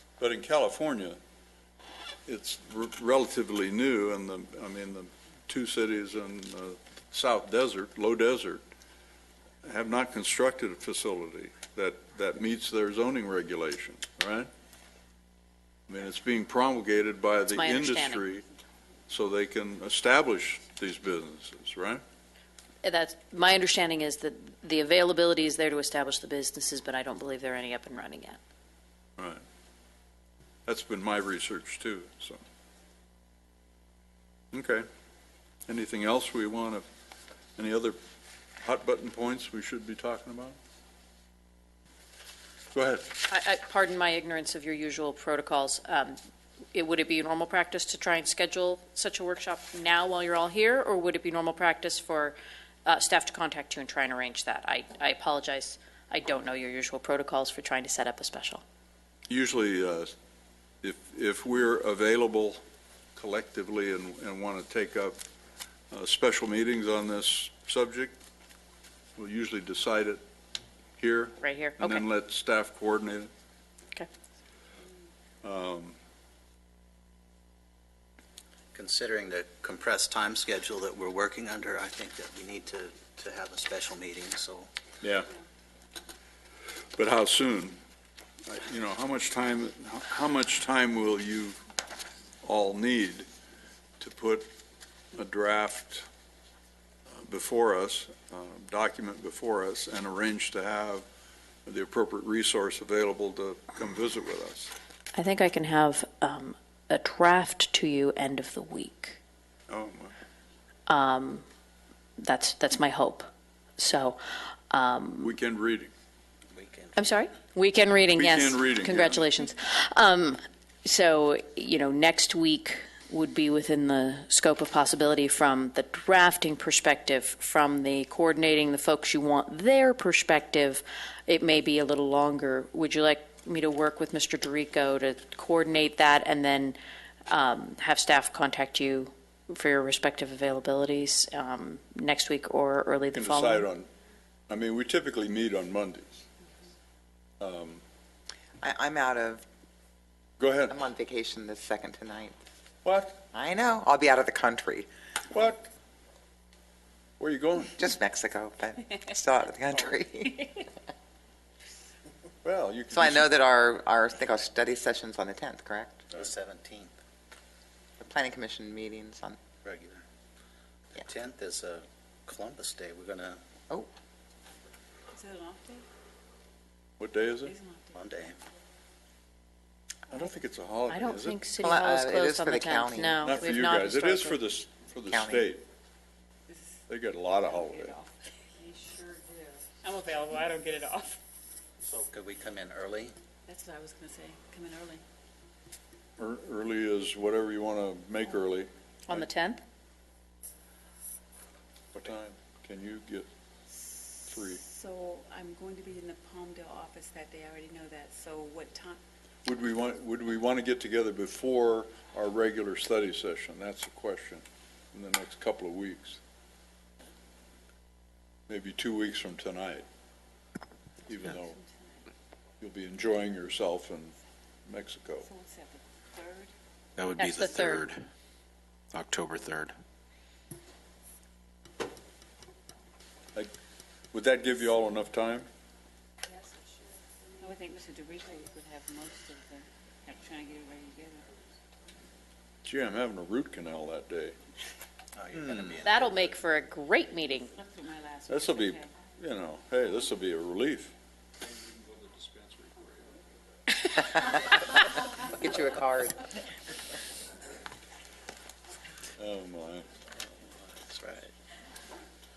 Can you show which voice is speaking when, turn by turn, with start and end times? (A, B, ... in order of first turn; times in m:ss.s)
0:00.2-0:01.2 A
0:02.3-0:08.6 A
0:09.6-0:14.5 A
0:15.9-0:18.4 A
0:17.5-0:18.2 B
0:19.1-0:22.0 A
0:22.8-0:28.4 B
0:29.2-0:29.4 A
0:30.7-0:32.4 A
0:34.5-0:34.8 A
0:35.7-0:36.8 A
0:37.6-0:38.0 A
0:38.6-0:40.6 A
0:42.7-0:43.1 A
0:43.3-0:46.2 B
0:46.7-0:58.6 B
0:59.3-1:00.1 A
1:00.8-1:02.6 A
1:03.2-1:05.2 A
1:05.9-1:08.2 A
1:09.2-1:10.2 A
1:11.0-1:13.3 A
1:11.4-1:12.1 B
1:15.4-1:16.0 A
1:18.7-1:24.7 C
1:25.0-1:25.3 A
1:27.0-1:27.8 A
1:28.5-1:31.6 A
1:32.4-1:33.3 A
1:34.0-1:34.5 A
1:35.1-1:36.1 A
1:37.1-1:41.1 A
1:41.7-1:44.7 A
1:45.2-1:49.2 B
1:49.7-1:50.1 A
1:50.9-1:51.4 B
1:52.2-1:55.4 B
1:55.2-1:55.9 A
1:56.5-1:57.2 C
1:57.0-2:23.7 B
1:58.2-1:59.3 A
2:23.1-2:23.9 A
2:24.5-2:26.3 A
2:27.4-2:27.8 A
2:28.6-2:29.4 D
2:30.4-2:30.8 A
2:30.7-2:32.3 D
2:32.8-2:33.2 A
2:33.3-2:34.9 D
2:35.3-2:35.7 A
2:37.2-2:37.8 A
2:37.8-2:40.7 D
2:42.4-2:43.3 A
2:42.9-2:46.0 D
2:46.1-2:46.9 C
2:48.0-2:49.4 D
2:49.6-2:50.0 C
2:50.9-2:53.4 C
2:55.2-2:55.8 E
2:57.0-2:57.6 A
2:57.5-2:58.0 E
2:57.9-2:58.4 C
3:00.1-3:01.4 A
3:00.9-3:04.5 B
3:01.6-3:03.3 D
3:03.2-3:05.6 A
3:05.1-3:05.5 D
3:06.9-3:08.0 A
3:07.6-3:11.2 E
3:11.8-3:13.2 C
3:13.5-3:15.0 E
3:16.2-3:19.3 A
3:19.1-3:19.6 B
3:21.9-3:23.3 A
3:24.2-3:24.6 A
3:24.7-3:29.0 E
3:29.4-3:36.2 A
3:38.5-3:39.9 A
3:41.1-3:41.6 A
3:42.6-3:44.2 A
3:44.7-3:45.3 A
3:45.3-3:46.5 E
3:47.0-3:48.0 F
3:47.2-3:47.9 B
3:48.9-3:49.8 F
3:54.1-3:55.5 A
3:57.4-4:01.3 E
4:02.6-4:04.4 A
4:05.2-4:06.3 C
4:05.8-4:07.5 B
4:07.6-4:08.9 E
4:08.3-4:10.9 A
4:11.5-4:13.2 A
4:14.1-4:14.5 D
4:15.2-4:16.3 D
4:19.2-4:19.9 A
4:20.5-4:21.3 C